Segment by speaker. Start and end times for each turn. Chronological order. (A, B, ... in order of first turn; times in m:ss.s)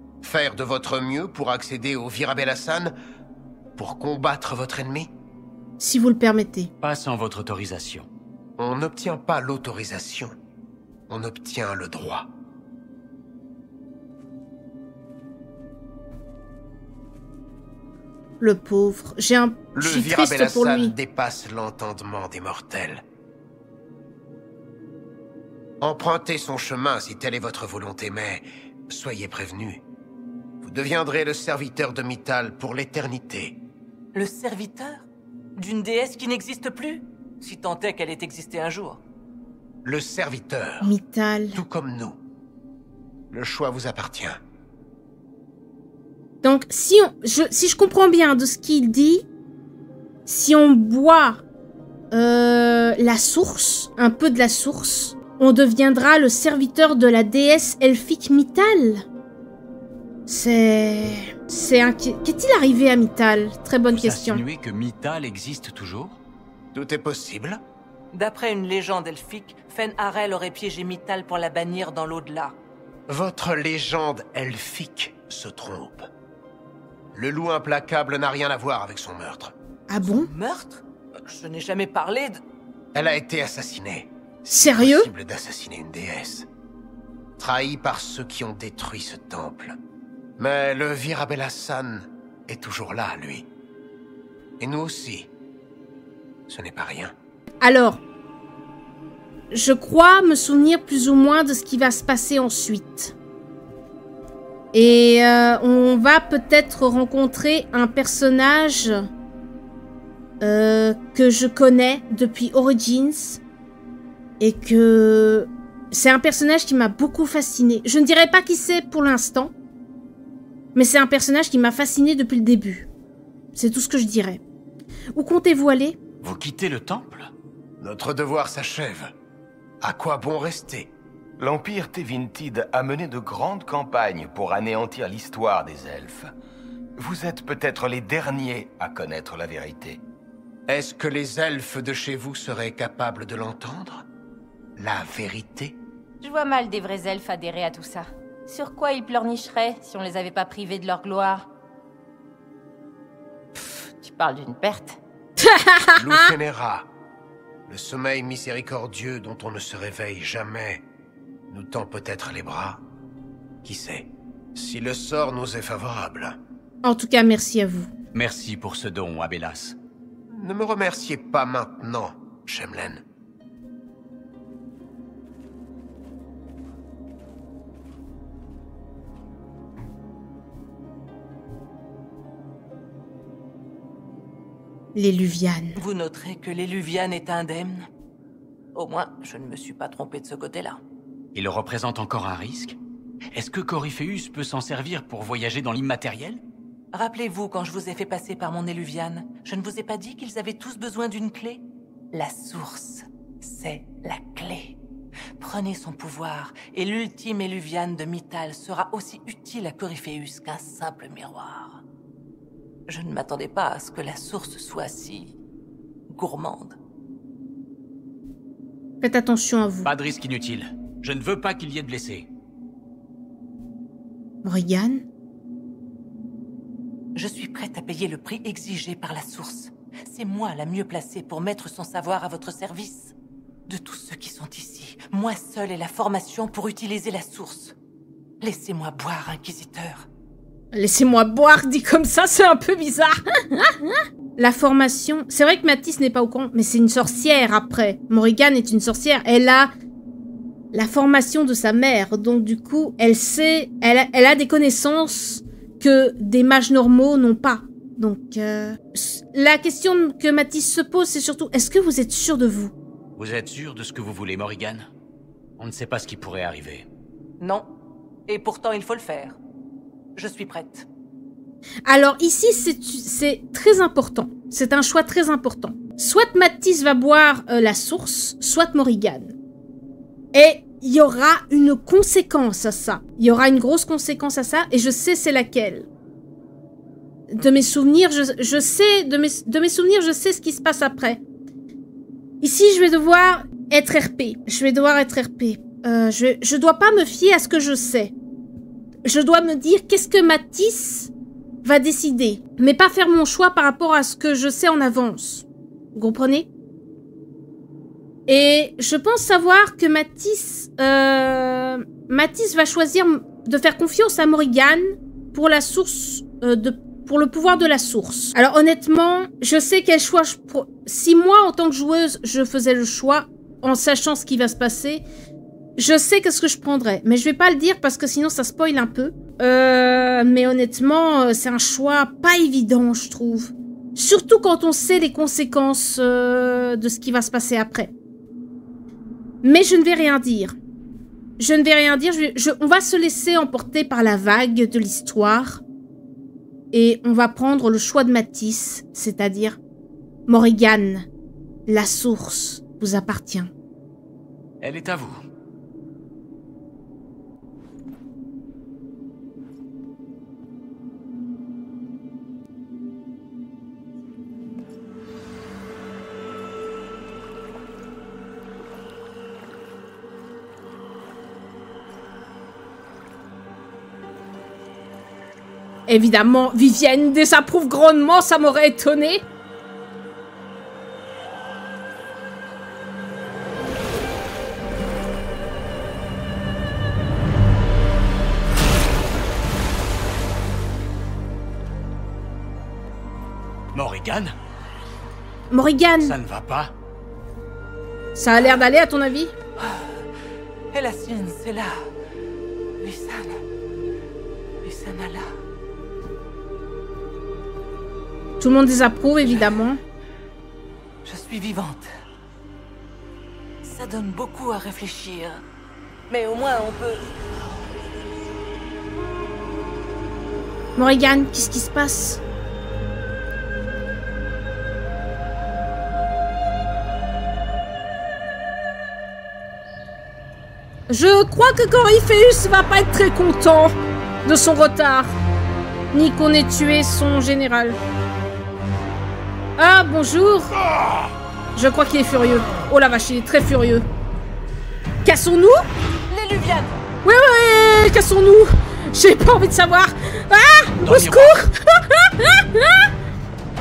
0:00.2-0:02.9 A
0:03.8-0:05.1 A
0:05.8-0:06.7 B
0:06.8-0:08.1 C
0:08.6-0:10.3 A
0:11.1-0:12.3 A
0:18.4-0:20.9 B
0:19.8-0:23.0 A
0:25.8-0:29.8 A
0:30.6-0:33.6 A
0:34.1-0:35.0 D
0:35.6-0:39.0 D
0:39.8-0:40.9 A
0:40.8-0:41.6 B
0:41.5-0:42.2 A
0:43.3-0:44.4 A
0:46.4-0:49.2 B
0:50.3-0:51.4 B
0:52.1-0:59.0 B
1:00.3-1:04.4 B
1:03.9-1:06.2 C
1:06.7-1:07.6 A
1:08.1-1:12.5 D
1:13.1-1:16.1 A
1:17.1-1:19.5 A
1:19.9-1:20.3 B
1:20.0-1:22.4 D
1:22.9-1:26.5 A
1:24.5-1:25.1 B
1:27.4-1:29.8 A
1:30.4-1:33.4 A
1:34.6-1:35.3 A
1:36.5-1:37.1 A
1:37.6-1:38.0 B
1:39.5-1:43.1 B
1:44.7-1:49.0 B
1:50.4-1:53.4 B
1:54.4-1:59.5 B
2:00.7-2:02.9 B
2:03.5-2:04.4 B
2:05.2-2:06.0 B
2:06.2-2:07.3 C
2:07.8-2:09.1 A
2:09.8-2:10.9 A
2:11.4-2:16.3 E
2:17.0-2:20.0 E
2:20.7-2:24.0 A
2:24.8-2:25.8 A
2:26.2-2:31.5 F
2:33.5-2:35.0 F
2:35.4-2:36.3 B
2:36.0-2:36.9 A
2:37.7-2:40.8 A
2:41.5-2:42.8 A
2:43.6-2:46.4 A
2:46.8-2:47.9 B
2:48.1-2:49.8 C
2:50.3-2:53.0 A
3:04.9-3:05.8 B
3:05.8-3:07.9 D
3:08.7-3:10.8 D
3:11.3-3:12.8 C
3:13.3-3:16.4 C
3:16.9-3:24.8 D
3:25.4-3:31.8 D
3:32.9-3:35.4 D
3:36.1-3:36.8 D
3:39.0-3:39.9 B
3:39.8-3:42.3 C
3:44.4-3:45.0 B
3:47.1-3:53.1 D
3:53.7-3:57.7 D
3:58.4-4:00.1 D
4:00.7-4:09.7 B
4:10.7-4:22.7 B
4:23.2-4:24.9 C
4:25.6-4:26.8 C
4:27.4-4:27.7 D
4:28.3-4:29.4 D
4:30.2-4:30.8 D
4:31.9-4:39.3 B
4:40.3-4:45.9 B
4:47.3-4:51.2 B
4:52.4-4:58.1 B
4:59.0-5:01.1 B
5:01.6-5:06.5 B
5:08.3-5:25.0 B
5:25.8-5:37.9 B
5:39.4-5:40.5 B
5:41.4-5:45.6 B
5:46.7-5:49.6 B
5:50.3-5:51.1 B
5:51.7-5:53.5 B
5:54.6-5:55.2 C
6:15.9-6:19.2 B
6:33.7-6:34.3 C
6:35.5-6:36.2 B
6:36.0-6:36.7 C
6:38.2-6:39.3 B
6:39.6-6:40.0 D
6:40.7-6:41.9 D
6:42.8-6:43.4 D
6:44.6-6:45.3 D
6:48.4-6:49.8 B
6:51.0-6:51.9 D
6:53.6-6:55.4 D
6:56.1-6:57.1 D
7:00.8-7:02.2 B
7:10.9-7:13.7 B
7:14.2-7:15.1 B
7:15.9-7:17.8 B
7:19.6-7:20.5 B
7:21.5-7:23.9 B
7:25.0-7:25.7 B
7:26.1-7:26.7 D
7:27.0-7:32.9 B
7:30.8-7:31.4 C